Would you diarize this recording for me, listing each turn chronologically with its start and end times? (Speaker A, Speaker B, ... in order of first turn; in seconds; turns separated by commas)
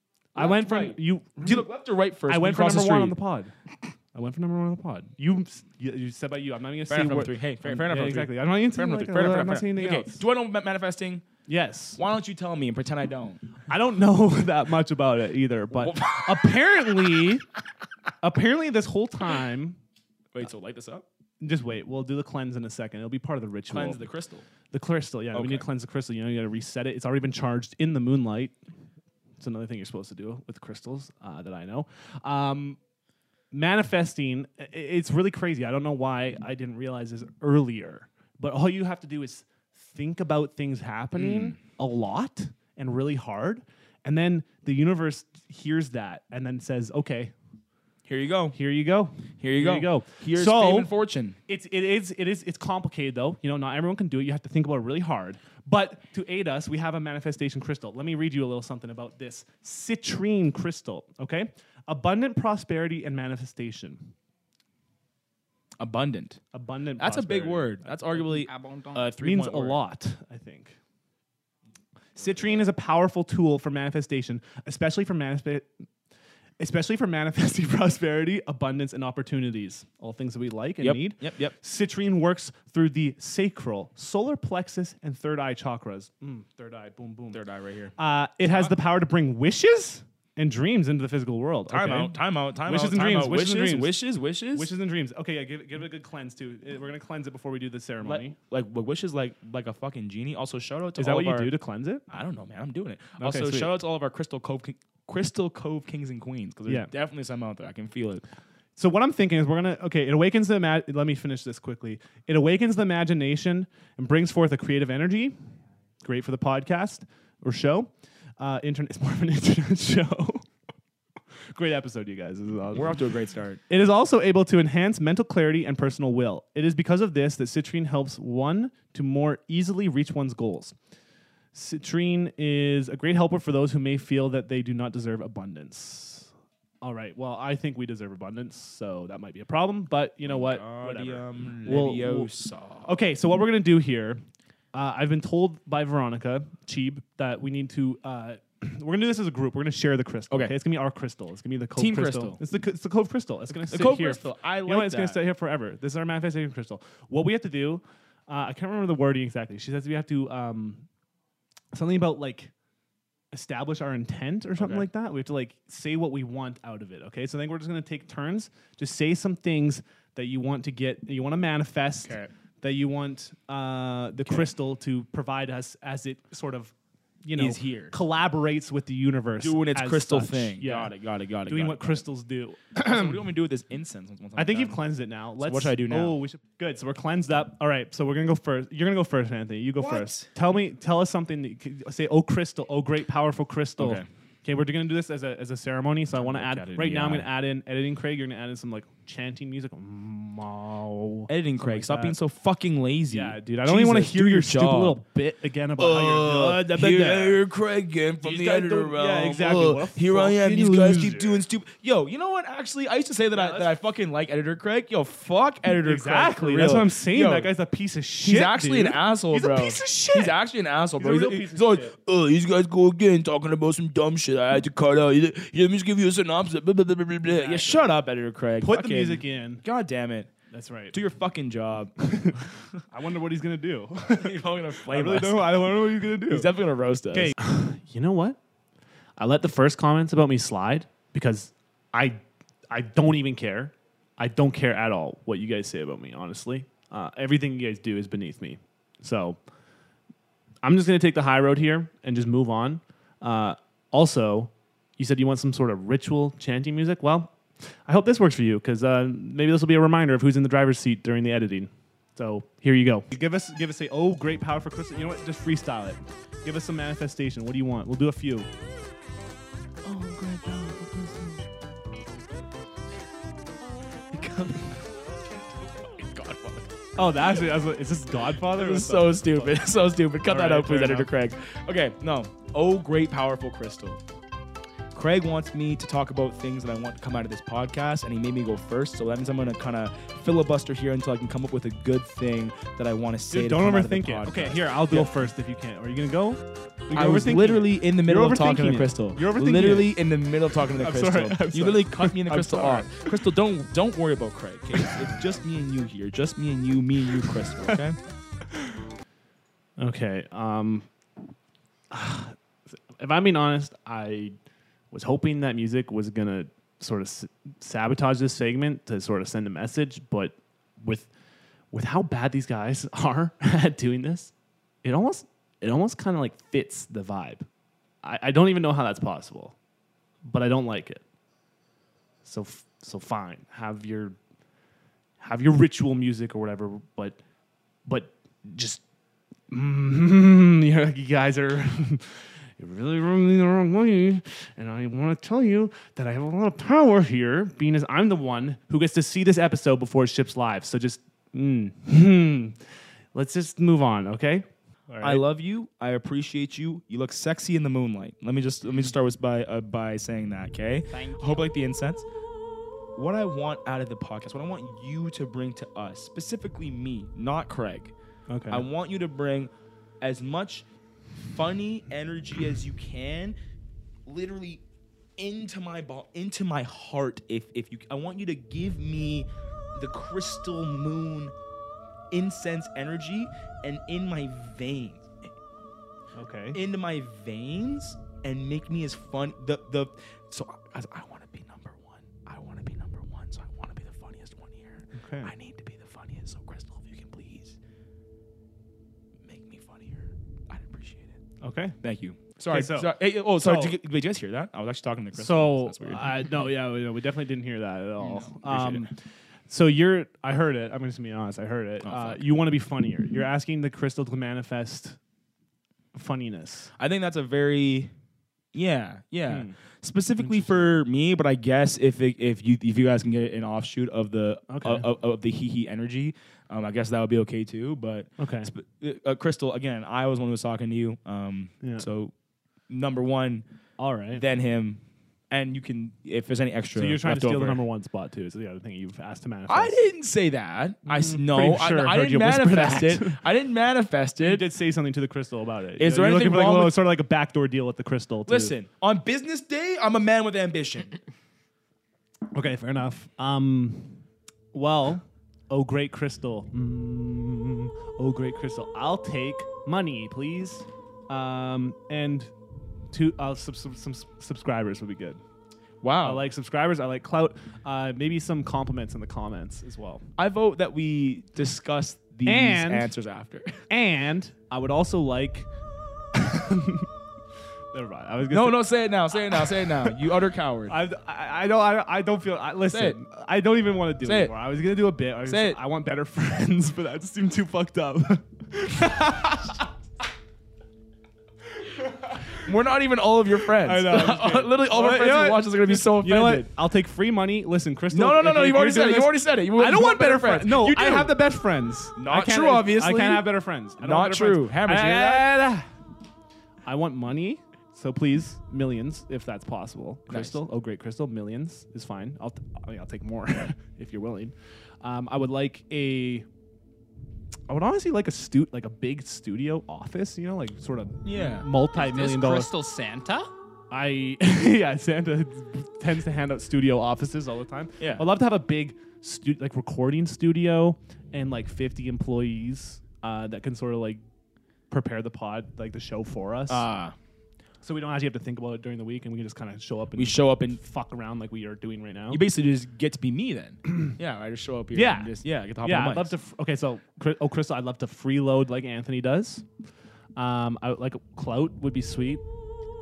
Speaker A: 0.3-1.7, Speaker B: 0.3-3.2, Speaker A: 2.2-3.5, Speaker A: 4.1-10.2, Speaker B: 6.9-11.2, Speaker A: 11.4-12.0, Speaker B: 11.9-13.4, Speaker A: 13.7-17.4, Speaker B: 15.7-17.3, Speaker A: 18.2-19.8, Speaker B: 20.3-21.0, Speaker A: 21.4-24.1, Speaker B: 23.7-24.4, Speaker A: 24.7-28.6, Speaker B: 25.3-25.6, Speaker A: 29.4-32.8, Speaker A: 33.5-47.3, Speaker B: 41.1-41.6, Speaker B: 48.0-48.6, Speaker A: 48.5-50.9, Speaker B: 49.4-51.4, Speaker A: 51.5-64.1, Speaker B: 65.8-66.4, Speaker A: 66.5-68.2, Speaker B: 67.0-69.8, Speaker C: 68.2-69.1, Speaker A: 69.2-70.8, Speaker A: 72.2-75.7, Speaker A: 76.6-87.4, Speaker B: 80.8-81.5, Speaker B: 87.3-88.8, Speaker A: 88.0-94.0, Speaker B: 91.7-94.7, Speaker A: 94.5-98.4, Speaker B: 98.0-101.5, Speaker A: 101.0-102.1, Speaker B: 102.1-108.2, Speaker A: 103.2-103.7, Speaker A: 108.8-115.3, Speaker A: 116.0-120.5, Speaker A: 121.5-122.9, Speaker B: 122.7-123.6, Speaker A: 123.7-130.7, Speaker A: 131.5-142.3, Speaker B: 140.3-142.9, Speaker A: 142.8-144.2, Speaker A: 144.7-160.8, Speaker B: 150.3-150.5, Speaker B: 151.8-152.4, Speaker B: 153.5-155.2, Speaker A: 161.7-162.5, Speaker A: 163.3-183.2, Speaker B: 164.6-164.9, Speaker B: 172.0-172.3, Speaker B: 177.3-177.9, Speaker B: 179.4-182.0, Speaker B: 182.7-184.8, Speaker A: 184.3-202.2, Speaker B: 185.4-186.2, Speaker B: 189.8-190.3, Speaker B: 193.8-194.1, Speaker B: 196.1-197.3, Speaker B: 201.3-205.0, Speaker A: 203.1-207.4, Speaker B: 205.8-217.5, Speaker A: 208.2-211.4, Speaker A: 213.3-213.7, Speaker A: 215.8-220.3, Speaker B: 218.2-230.3, Speaker A: 221.0-221.9, Speaker A: 227.2-227.9, Speaker A: 228.6-229.6, Speaker A: 230.5-230.9, Speaker B: 230.9-231.9, Speaker A: 232.0-236.5, Speaker B: 234.1-237.3, Speaker A: 237.1-238.4, Speaker A: 239.2-249.4, Speaker A: 250.6-257.3, Speaker A: 257.9-268.5, Speaker B: 269.8-271.4, Speaker B: 274.1-276.7, Speaker A: 276.9-279.6, Speaker B: 278.5-284.0, Speaker A: 280.2-281.1, Speaker B: 284.9-295.1, Speaker A: 293.3-299.9, Speaker B: 296.9-308.0, Speaker A: 300.7-303.2, Speaker A: 304.7-305.1, Speaker A: 309.8-310.9, Speaker A: 311.9-312.4, Speaker A: 312.9-314.4, Speaker A: 314.9-321.1, Speaker A: 321.7-324.3, Speaker A: 324.8-327.4, Speaker A: 328.0-329.5, Speaker A: 330.2-331.0, Speaker A: 332.2-334.2, Speaker A: 335.2-337.2, Speaker A: 337.8-338.8, Speaker A: 339.5-352.6, Speaker A: 353.1-355.2, Speaker B: 355.0-362.1, Speaker C: 360.9-361.5, Speaker B: 362.9-367.9, Speaker A: 368.3-368.6, Speaker B: 368.5-370.6, Speaker B: 371.2-373.4, Speaker B: 374.1-374.6, Speaker B: 375.2-381.3, Speaker B: 382.1-385.3, Speaker A: 386.1-386.6, Speaker B: 386.5-397.6, Speaker A: 394.9-395.3, Speaker B: 399.2-401.2, Speaker A: 401.4-401.8, Speaker B: 401.8-406.2, Speaker A: 402.5-403.8, Speaker A: 405.1-408.9, Speaker B: 408.4-408.9, Speaker A: 409.5-415.0, Speaker B: 411.8-412.2, Speaker A: 415.9-416.7, Speaker B: 416.8-417.9, Speaker B: 418.5-432.1, Speaker A: 419.3-419.6, Speaker A: 420.2-420.8, Speaker A: 424.5-424.9, Speaker A: 428.2-428.5, Speaker A: 431.6-431.9, Speaker B: 432.7-433.4, Speaker A: 433.8-434.2, Speaker B: 434.1-437.6, Speaker A: 436.8-439.8, Speaker B: 439.5-444.5, Speaker A: 440.9-443.2, Speaker A: 444.2-448.5, Speaker B: 445.8-446.8, Speaker B: 448.3-451.0, Speaker A: 452.3-454.0, Speaker A: 454.5-462.3, Speaker A: 462.9-465.2, Speaker B: 465.8-466.3, Speaker A: 466.0-470.1, Speaker B: 470.2-473.6, Speaker A: 472.2-472.9, Speaker A: 473.7-475.5, Speaker A: 476.1-476.9, Speaker A: 477.7-480.0, Speaker B: 478.3-480.8, Speaker A: 480.7-489.7, Speaker B: 482.7-483.0, Speaker B: 484.0-484.3, Speaker B: 485.2-485.6, Speaker A: 491.8-492.1, Speaker B: 492.3-496.5, Speaker A: 493.5-505.7, Speaker B: 497.9-501.2, Speaker B: 501.9-505.3, Speaker A: 506.6-516.2, Speaker B: 510.1-510.4, Speaker A: 517.5-522.5, Speaker B: 521.0-521.5, Speaker C: 521.7-523.3, Speaker A: 523.7-534.0, Speaker B: 527.8-528.1, Speaker A: 534.7-536.6, Speaker B: 536.5-536.9, Speaker A: 537.6-542.2, Speaker B: 540.0-540.6, Speaker B: 542.1-546.1, Speaker A: 544.7-549.5, Speaker A: 550.1-552.2